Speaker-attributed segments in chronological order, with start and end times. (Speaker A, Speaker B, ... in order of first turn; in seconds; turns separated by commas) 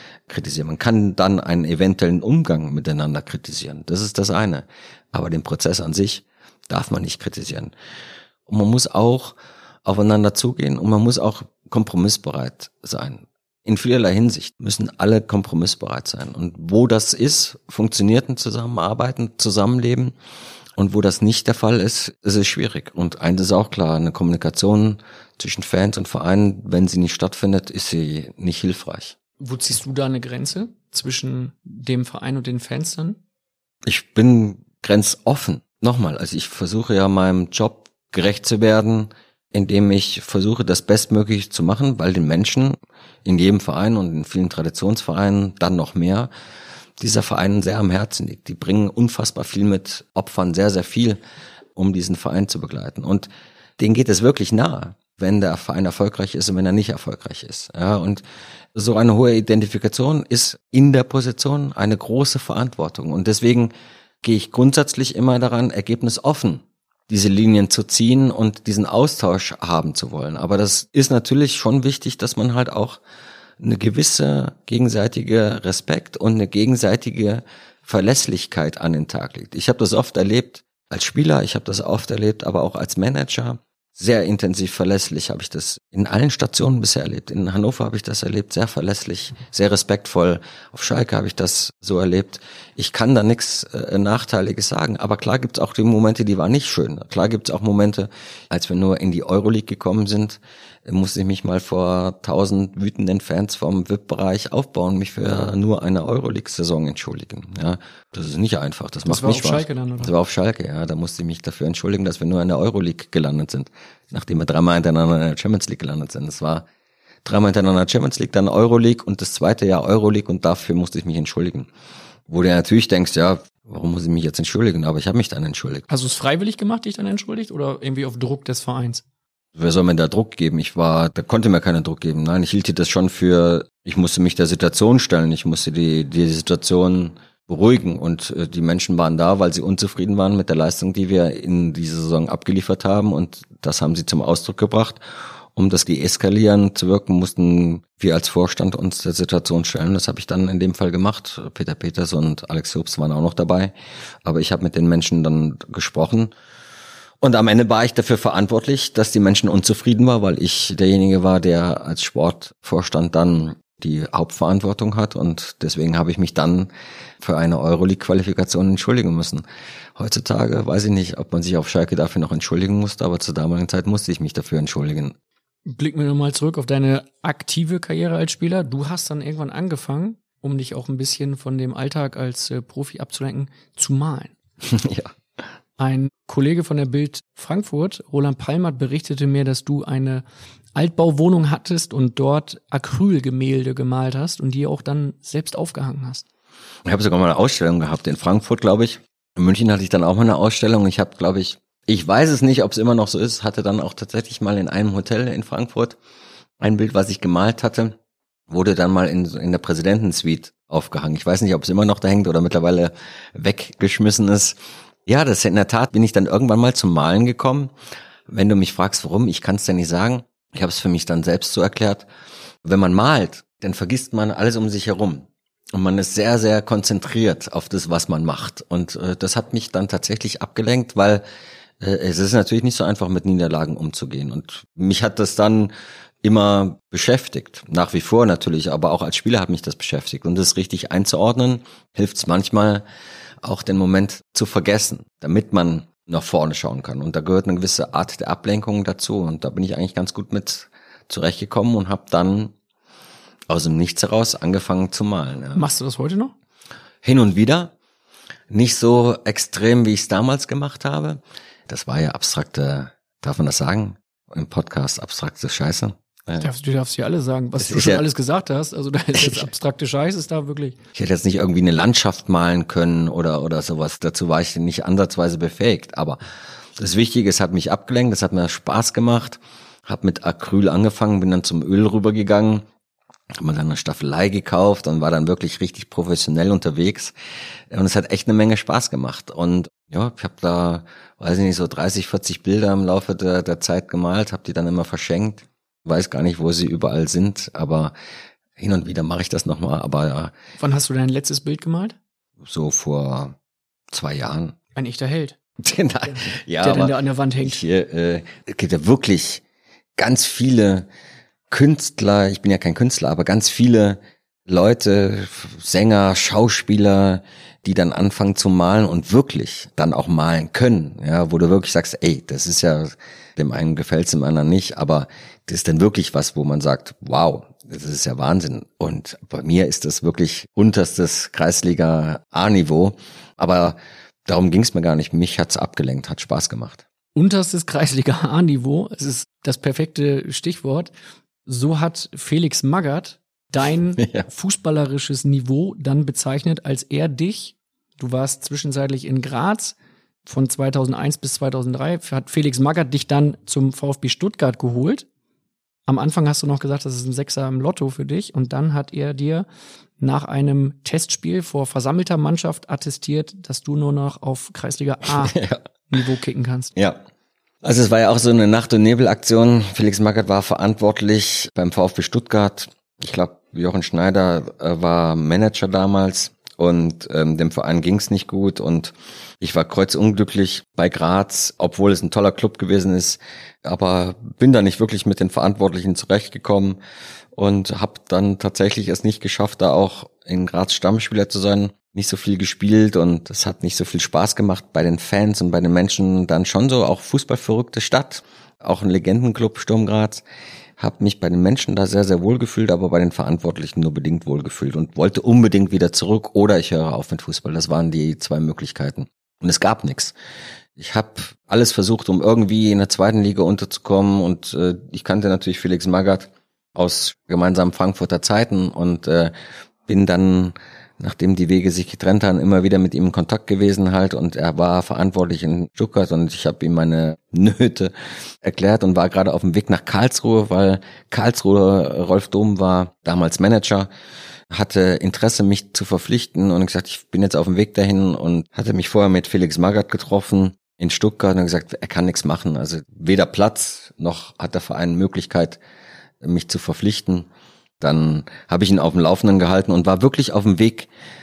Speaker A: 0.3-7.7, Speaker A: 8.5-20.1, Speaker A: 20.8-29.2, Speaker B: 29.4-33.2, Speaker A: 33.9-46.3, Speaker A: 47.0-51.2, Speaker A: 51.8-58.2, Speaker A: 58.8-73.0, Speaker A: 73.6-116.7, Speaker B: 109.1-110.1, Speaker A: 117.2-121.7, Speaker A: 122.3-125.9, Speaker B: 125.9-129.0, Speaker A: 129.6-145.0, Speaker A: 145.6-153.7, Speaker A: 154.2-156.3, Speaker A: 157.2-169.4, Speaker A: 170.0-175.2, Speaker B: 175.7-184.4, Speaker A: 184.7-185.1, Speaker B: 185.8-196.3, Speaker A: 196.9-206.0, Speaker A: 206.6-208.0, Speaker A: 208.5-217.7, Speaker A: 218.3-222.1, Speaker A: 222.7-231.2, Speaker A: 231.8-235.7, Speaker A: 236.2-242.8, Speaker A: 243.4-252.5, Speaker A: 253.5-255.7, Speaker B: 255.5-256.3, Speaker A: 257.0-257.7, Speaker A: 258.5-266.5, Speaker B: 266.4-270.8, Speaker A: 267.6-268.1, Speaker A: 269.2-269.5, Speaker A: 270.9-276.2, Speaker A: 276.8-282.6, Speaker A: 283.4-287.1, Speaker A: 287.7-297.9, Speaker A: 298.6-300.3, Speaker B: 300.6-302.0, Speaker A: 302.4-303.4, Speaker A: 303.9-304.6, Speaker B: 304.8-305.4, Speaker A: 305.6-309.4, Speaker B: 306.1-307.6, Speaker A: 310.0-310.9, Speaker A: 311.5-336.8, Speaker B: 337.1-340.9, Speaker B: 341.5-355.1, Speaker A: 344.0-344.3, Speaker B: 355.9-359.5, Speaker B: 360.0-365.4, Speaker A: 365.2-365.6, Speaker B: 365.9-366.7, Speaker A: 367.6-386.8, Speaker A: 387.4-400.2, Speaker A: 400.8-410.1, Speaker A: 410.8-419.3, Speaker A: 419.9-433.9, Speaker A: 434.5-445.6, Speaker A: 446.2-447.3, Speaker A: 447.8-450.9